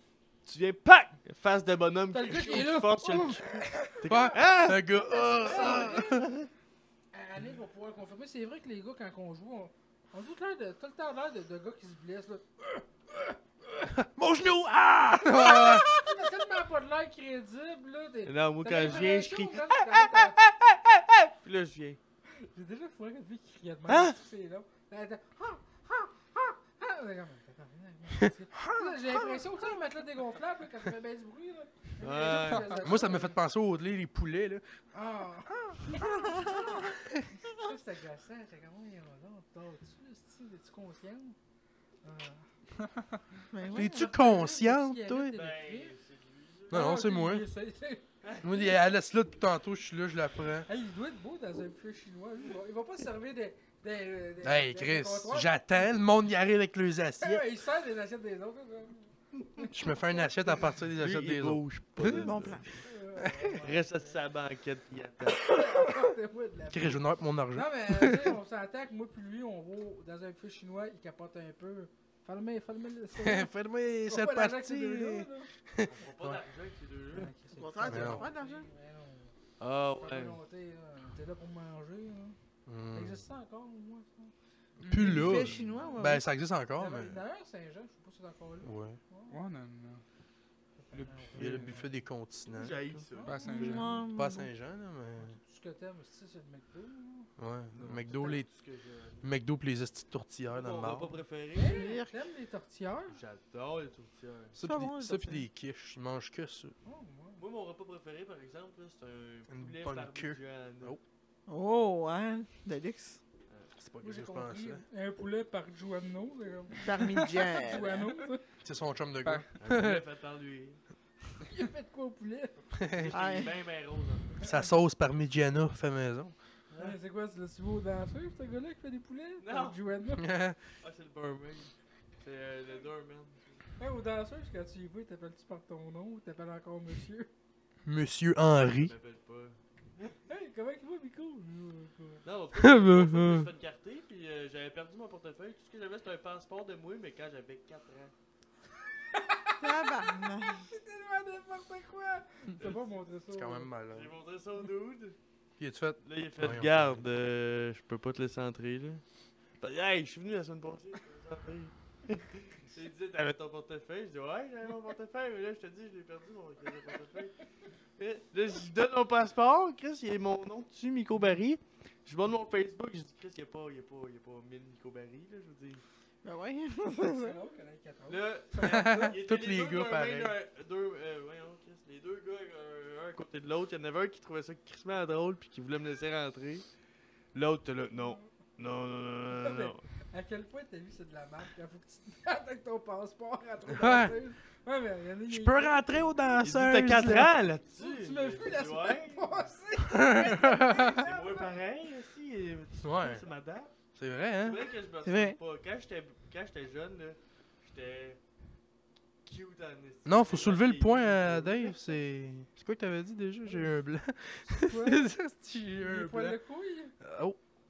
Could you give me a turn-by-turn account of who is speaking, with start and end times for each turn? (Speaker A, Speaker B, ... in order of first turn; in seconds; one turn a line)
Speaker A: 0.5-4.8
Speaker B: 2.1-6.4
Speaker C: 4.0-6.3
Speaker A: 5.4-6.3
Speaker B: 7.1-13.8
Speaker C: 14.0-16.1
Speaker B: 15.2-20.4
Speaker A: 18.2-19.6
Speaker A: 21.3-22.0
Speaker B: 22.4-33.4
Speaker A: 23.9-24.1
Speaker C: 28.6-28.9
Speaker A: 32.0-32.9
Speaker C: 32.8-34.6
Speaker B: 34.9-41.4
Speaker D: 35.9-36.9
Speaker B: 42.0-42.5
Speaker D: 43.5-44.1
Speaker C: 43.7-45.4
Speaker B: 43.7-46.0
Speaker A: 45.3-47.0
Speaker C: 46.7-47.5
Speaker B: 46.7-48.0
Speaker A: 48.2-48.7
Speaker C: 48.4-50.7
Speaker B: 50.7-55.9
Speaker C: 54.4-57.4
Speaker B: 57.2-60.7
Speaker C: 59.7-62.3
Speaker A: 61.0-65.6
Speaker D: 62.0-62.6
Speaker B: 62.8-64.2
Speaker B: 65.5-73.5
Speaker C: 66.7-68.3
Speaker C: 73.2-76.4
Speaker B: 74.0-75.5
Speaker A: 75.8-77.3
Speaker B: 77.1-79.3
Speaker D: 77.5-78.7
Speaker C: 77.9-78.2
Speaker A: 79.6-80.4
Speaker B: 80.0-82.3
Speaker C: 82.7-83.2
Speaker B: 82.9-84.3
Speaker E: 84.8-85.2
Speaker C: 84.8-87.2
Speaker D: 85.0-86.2
Speaker A: 85.3-85.9
Speaker B: 86.8-89.4
Speaker C: 88.6-89.0
Speaker E: 89.3-90.0
Speaker B: 90.8-91.8
Speaker E: 90.9-91.8
Speaker C: 91.3-92.8
Speaker A: 92.5-93.3
Speaker B: 93.1-94.0
Speaker E: 93.2-93.9
Speaker D: 93.6-94.5
Speaker C: 94.1-95.4
Speaker B: 95.2-97.3
Speaker C: 97.4-98.5
Speaker A: 97.7-99.2
Speaker B: 98.1-98.4
Speaker C: 99.2-101.1
Speaker A: 100.5-101.9
Speaker B: 101.5-103.2
Speaker D: 101.7-102.2
Speaker A: 103.1-104.5
Speaker C: 104.5-106.7
Speaker D: 104.6-105.5
Speaker B: 106.8-107.4
Speaker A: 107.4-111.0
Speaker C: 109.5-111.0
Speaker D: 111.5-113.2
Speaker C: 113.8-114.8
Speaker B: 114.0-118.4
Speaker D: 116.8-118.1
Speaker C: 118.6-120.0
Speaker E: 119.2-119.6
Speaker A: 119.6-120.8
Speaker B: 121.5-122.7
Speaker C: 122.8-123.1
Speaker A: 123.0-124.4
Speaker D: 123.1-123.5
Speaker C: 124.4-126.3
Speaker B: 126.8-130.2
Speaker A: 129.4-129.8
Speaker C: 130.2-130.6
Speaker A: 130.8-133.6
Speaker B: 133.8-137.3
Speaker C: 137.8-138.9
Speaker A: 138.6-140.1
Speaker B: 140.3-142.2
Speaker A: 142.2-148.1
Speaker C: 142.6-143.5
Speaker B: 149.1-153.7
Speaker D: 149.6-150.7
Speaker A: 152.6-152.8
Speaker C: 153.3-154.1
Speaker A: 153.9-155.2
Speaker C: 155.6-157.0
Speaker A: 156.0-159.0
Speaker A: 159.6-167.3
Speaker A: 168.0-175.8
Speaker D: 176.2-177.4
Speaker B: 177.2-179.2
Speaker A: 178.1-186.7
Speaker C: 178.6-180.3
Speaker A: 187.3-189.8
Speaker B: 187.9-188.3
Speaker B: 189.3-196.1
Speaker C: 193.7-194.1
Speaker C: 195.3-197.3
Speaker A: 196.4-199.3
Speaker B: 197.7-201.6
Speaker C: 199.8-201.0
Speaker A: 200.7-203.7
Speaker C: 202.8-203.2
Speaker C: 203.9-204.6
Speaker A: 204.4-208.2
Speaker D: 205.0-205.4
Speaker A: 209.2-211.8
Speaker C: 210.1-216.4
Speaker B: 213.5-213.7
Speaker B: 214.5-215.1
Speaker B: 215.8-216.9
Speaker C: 217.0-217.4